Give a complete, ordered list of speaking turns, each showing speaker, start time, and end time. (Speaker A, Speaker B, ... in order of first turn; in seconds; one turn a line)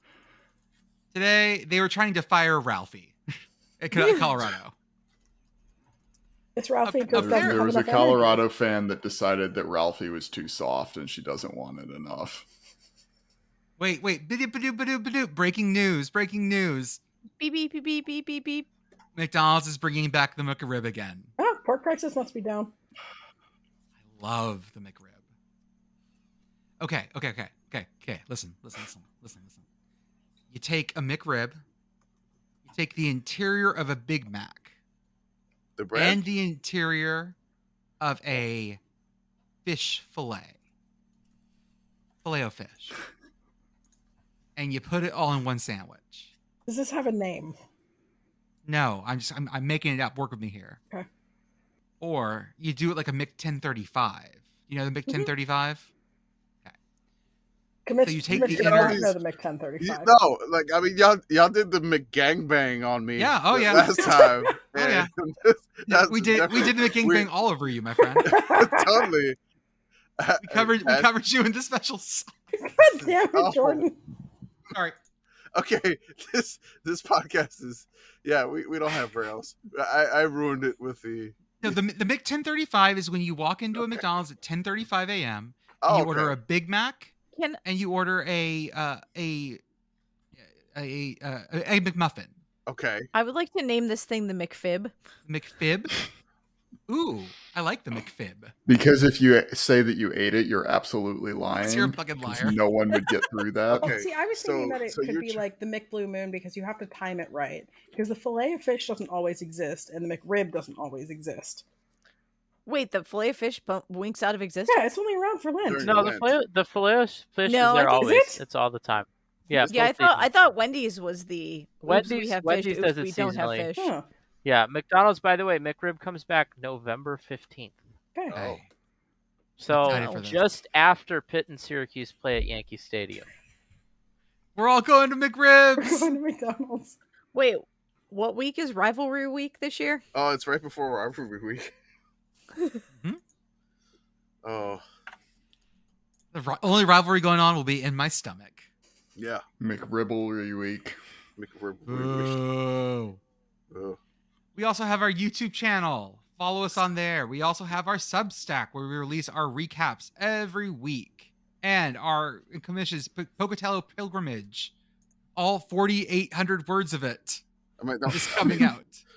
Speaker A: 1.1-3.2
Speaker A: 3.8-4.7
Speaker B: 4.0-4.2
Speaker B: 6.6-8.4
Speaker A: 6.8-7.7
Speaker C: 7.1-12.4
Speaker A: 13.8-17.0
Speaker D: 17.4-18.7
Speaker A: 19.2-21.3
Speaker B: 21.4-22.7
Speaker A: 24.1-25.2
Speaker A: 26.8-29.6
Speaker A: 30.5-31.6
Speaker A: 32.6-34.7
Speaker E: 35.8-36.2
Speaker A: 36.0-37.4
Speaker A: 38.0-38.8
Speaker A: 39.6-40.5
Speaker A: 42.2-43.0
Speaker A: 44.6-46.3
Speaker B: 46.7-47.6
Speaker A: 48.7-50.8
Speaker A: 52.0-55.9
Speaker B: 57.9-60.1
Speaker A: 58.0-59.0
Speaker E: 58.3-59.2
Speaker E: 59.8-67.3
Speaker A: 63.2-65.1
Speaker B: 63.7-64.5
Speaker A: 65.9-68.3
Speaker B: 68.2-69.0
Speaker E: 68.2-69.4
Speaker E: 70.2-71.1
Speaker A: 70.4-72.4
Speaker B: 72.5-74.0
Speaker E: 73.0-73.8
Speaker E: 75.5-81.7
Speaker A: 81.6-89.6
Speaker E: 85.8-86.3
Speaker D: 87.3-87.6
Speaker A: 90.4-92.3
Speaker E: 92.7-93.1
Speaker D: 93.1-94.9
Speaker A: 95.3-96.0
Speaker A: 96.9-98.5
Speaker C: 98.7-104.0
Speaker A: 101.6-102.6
Speaker E: 103.7-105.4
Speaker B: 103.8-111.6
Speaker D: 112.7-114.8
Speaker B: 114.7-115.9
Speaker E: 115.7-116.3
Speaker F: 115.8-120.3
Speaker D: 117.5-118.0
Speaker B: 118.0-118.4
Speaker E: 119.5-119.8
Speaker D: 119.7-123.9
Speaker F: 121.8-123.7
Speaker B: 123.8-124.1
Speaker F: 124.4-127.8
Speaker E: 128.3-128.6
Speaker A: 128.3-128.7
Speaker F: 129.6-133.3
Speaker A: 129.7-130.5
Speaker A: 134.6-136.1
Speaker B: 135.8-137.0
Speaker D: 137.3-140.0
Speaker E: 140.1-141.7
Speaker E: 144.4-144.8
Speaker A: 146.3-148.7
Speaker E: 149.2-149.4
Speaker C: 149.6-150.9
Speaker E: 151.4-152.4
Speaker A: 151.9-153.2
Speaker E: 153.7-154.0
Speaker A: 154.6-164.7
Speaker A: 165.4-167.4
Speaker E: 167.8-168.7
Speaker A: 168.1-169.0